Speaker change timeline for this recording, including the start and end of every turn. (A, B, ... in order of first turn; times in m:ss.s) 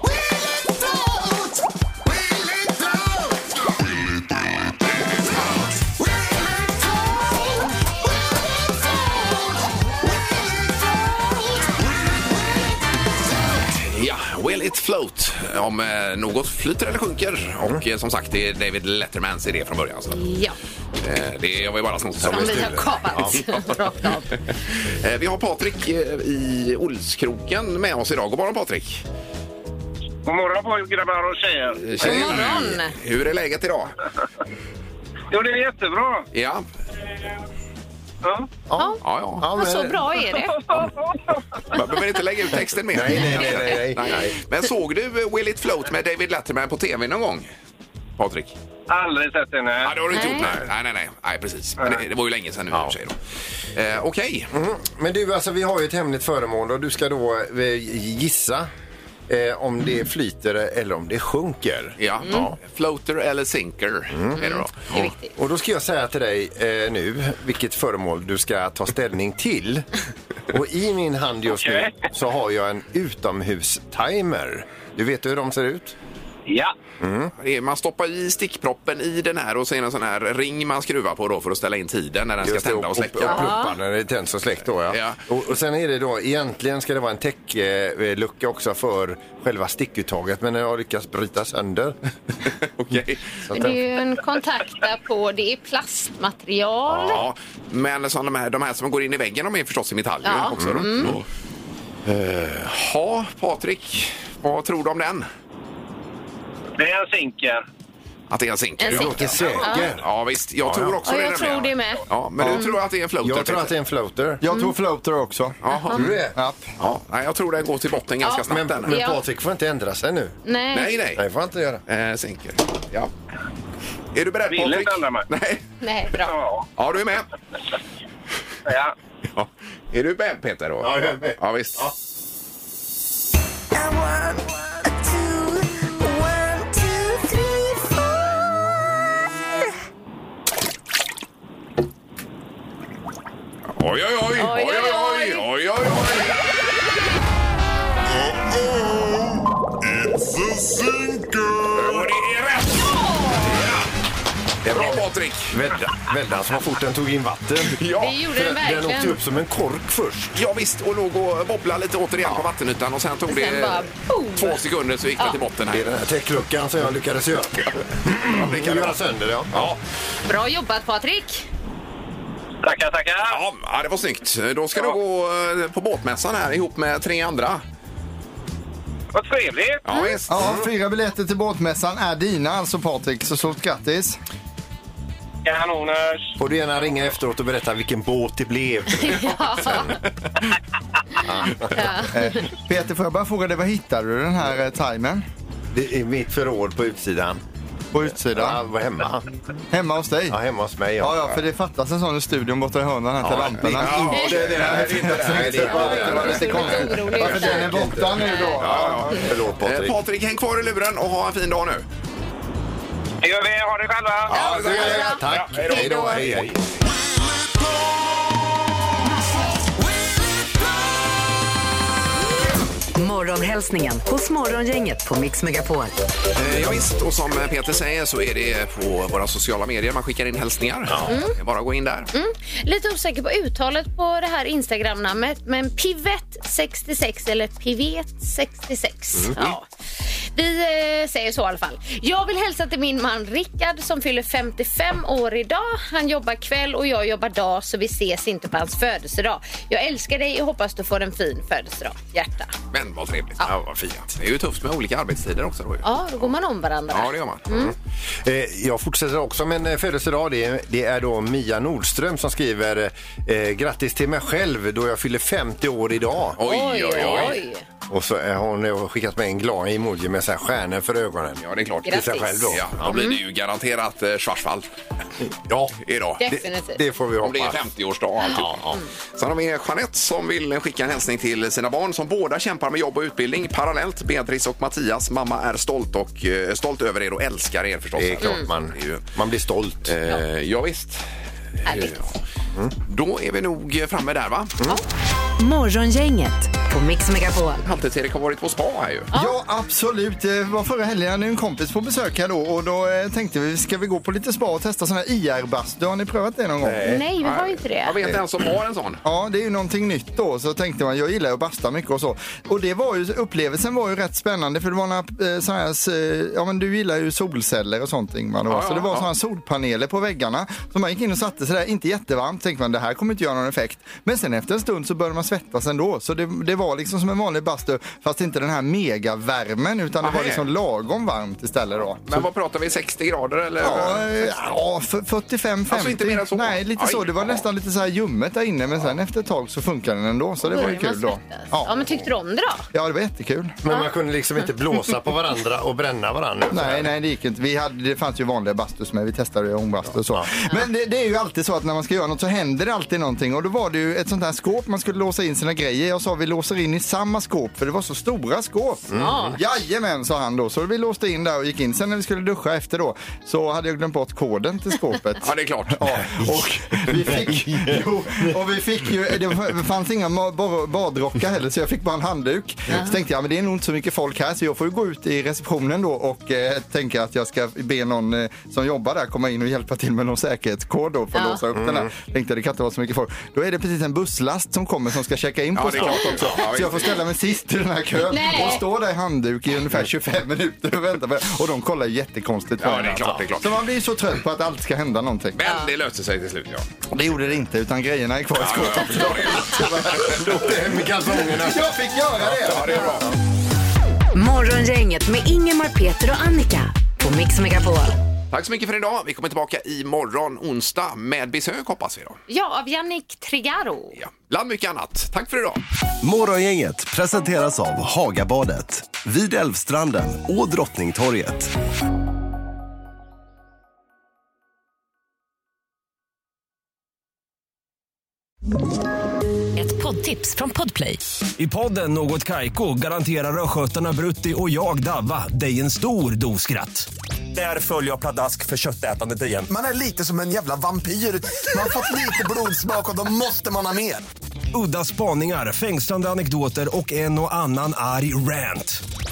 0:13.7-0:20.2 A
0:20.1-0:20.6 B
0:21.0-0:22.8 A
0:22.2-0:23.4 C
0:22.3-0:24.3 B
0:23.3-0:23.8 A
0:24.3-0:29.0 A
0:30.2-0:31.8 D
0:31.8-0:33.9 A
0:32.0-0:32.9 B
0:32.0-0:32.4 C
0:35.3-0:36.2 D
0:36.3-0:36.6 A
0:38.2-0:38.5 D
0:38.7-0:40.2 C
0:39.0-0:39.4 A
0:39.5-0:40.8 B
0:40.7-0:41.2 D
0:41.7-0:47.5 A
0:42.9-0:44.4 C
0:48.2-0:48.5 A
0:48.9-0:50.2 D
0:49.8-0:53.2 A
0:50.1-0:50.5 B
0:50.4-0:50.6 C
0:53.7-0:54.5 A
0:54.5-0:58.7 C
0:59.3-1:02.6 C
1:02.0-1:05.1 A
1:04.1-1:04.4 C
1:04.4-1:05.3 B
1:05.4-1:09.9 C
1:10.5-1:16.0 C
1:11.5-1:12.1 D
1:16.5-1:16.7 D
1:17.0-1:17.3 C
1:17.4-1:23.6 A
1:22.4-1:32.0 C
1:23.3-1:23.8 B
1:24.9-1:25.2 A
1:32.5-1:33.4 A
1:33.4-1:33.8 C
1:33.5-1:37.2 B
1:36.9-1:37.2 C
1:37.0-1:41.2 A
1:40.2-1:41.2 B
1:40.5-1:41.2 C
1:42.0-1:45.3 A
1:46.8-1:47.6 D
1:48.3-1:53.8 A
1:48.8-1:49.9 B
1:48.9-1:50.1 C
1:50.6-1:51.0 C
1:51.1-1:52.8 B
1:52.4-1:52.6 E
1:53.2-1:54.4 C
1:54.4-1:55.6 E
1:54.5-1:54.7 B
1:55.6-1:56.2 A
1:55.9-1:56.4 C
1:56.3-1:56.7 E
1:56.8-1:59.0 A
1:58.2-1:59.2 B
1:58.4-2:00.4 C
2:00.4-2:01.0 B
2:00.7-2:01.2 A
2:01.2-2:01.8 C
2:01.9-2:03.1 A
2:04.1-2:05.6 A
2:04.5-2:05.3 D
2:05.8-2:06.3 B
2:06.2-2:06.7 D
2:06.8-2:07.3 A
2:08.7-2:08.9 D
2:09.4-2:11.9 A
2:10.8-2:11.9 C
2:13.8-2:15.4 B
2:16.7-2:17.0 B
2:23.8-2:26.4 A
2:24.4-2:25.5 B
2:30.6-2:31.5 C
2:31.6-2:33.9 A
2:34.6-2:35.6 A
2:34.7-2:40.4 C
2:37.7-2:38.2 A
2:38.0-2:39.2 B
2:40.4-2:45.9 A
2:43.3-2:44.6 B
2:45.7-2:49.8 C
2:47.7-2:49.0 A
2:49.5-2:49.8 A
2:50.3-2:51.5 B
2:52.6-2:53.4 D
2:53.3-2:57.6 A
2:59.1-2:59.8 D
2:59.8-3:00.3 A
2:59.9-3:00.2 B
3:00.3-3:04.2 E
3:00.3-3:00.7 C
3:05.4-3:06.2 D
3:06.4-3:10.0 C
3:09.0-3:10.0 B
3:11.2-3:11.9 C
3:11.6-3:12.4 B
3:12.1-3:15.2 E
3:15.7-3:17.4 C
3:17.9-3:18.6 E
3:18.0-3:19.3 C
3:19.7-3:20.4 E
3:20.3-3:21.5 C
3:21.0-3:29.3 E
3:23.2-3:30.0 C
3:23.6-3:26.4 A
3:24.1-3:24.6 B
3:25.5-3:28.7 B
3:28.6-3:31.9 A
3:33.2-3:34.4 D
3:34.3-3:36.7 A
3:34.3-3:36.3 B
3:34.4-3:36.6 C
3:43.0-3:45.9 F
3:46.4-3:52.1 A
3:50.9-3:51.1 C
3:51.1-3:51.3 B
3:52.1-3:59.6 B
4:00.3-4:12.5 B
4:12.7-4:16.3 A
4:13.4-4:14.1 C
4:15.8-4:17.7 B
4:16.9-4:17.5 A
4:17.5-4:26.4 C
4:26.4-4:27.4 A
4:26.4-4:27.6 B
4:26.9-4:27.3 C
4:27.9-4:33.0 C
4:31.4-4:34.7 A
4:31.8-4:33.2 B
4:35.5-4:37.7 C
4:35.8-4:36.2 A
4:36.2-4:36.8 B
4:37.2-4:38.5 A
4:38.2-4:38.9 B
4:38.3-4:38.8 C
4:39.1-4:49.0 A
4:48.0-4:50.0 C
4:48.2-4:48.5 B
4:49.9-4:51.0 A
4:51.6-4:52.1 A
4:51.6-4:52.0 B
4:52.9-4:54.6 A
4:55.4-4:57.6 F
4:57.6-4:59.1 A
4:59.1-4:59.4 B
4:59.1-5:06.9 E
5:06.6-5:07.0 C
5:06.8-5:08.0 B
5:07.2-5:09.0 A
5:09.0-5:32.3 E
5:18.5-5:19.1 A
5:30.0-5:30.4 A
5:32.1-5:34.3 A
5:33.6-5:41.8 E
5:35.7-5:37.4 A
5:40.5-5:42.6 B
5:42.7-5:43.6 E
5:43.6-5:46.9 C
5:46.5-6:35.4 E
5:58.9-5:59.4 C
5:59.0-5:59.4 B
6:05.2-6:06.9 A
6:07.0-6:08.4 C
6:21.1-6:21.4 B
6:21.5-6:21.9 C
6:25.5-6:27.0 A
6:28.1-6:28.6 B
6:32.6-6:33.7 A
6:35.4-6:36.7 A
6:36.9-6:40.2 E
6:38.4-6:40.2 A
6:39.5-6:41.7 C
6:41.4-6:43.0 E
6:42.2-6:43.0 C
6:42.4-6:43.1 A
6:44.2-6:48.0 F
6:48.3-6:52.2 A
6:52.3-6:54.0 B
6:54.0-6:55.6 A
6:56.0-7:01.5 G
7:09.6-7:11.0 F
7:11.4-7:19.5 H
7:19.5-7:24.0 I
7:24.5-7:28.8 H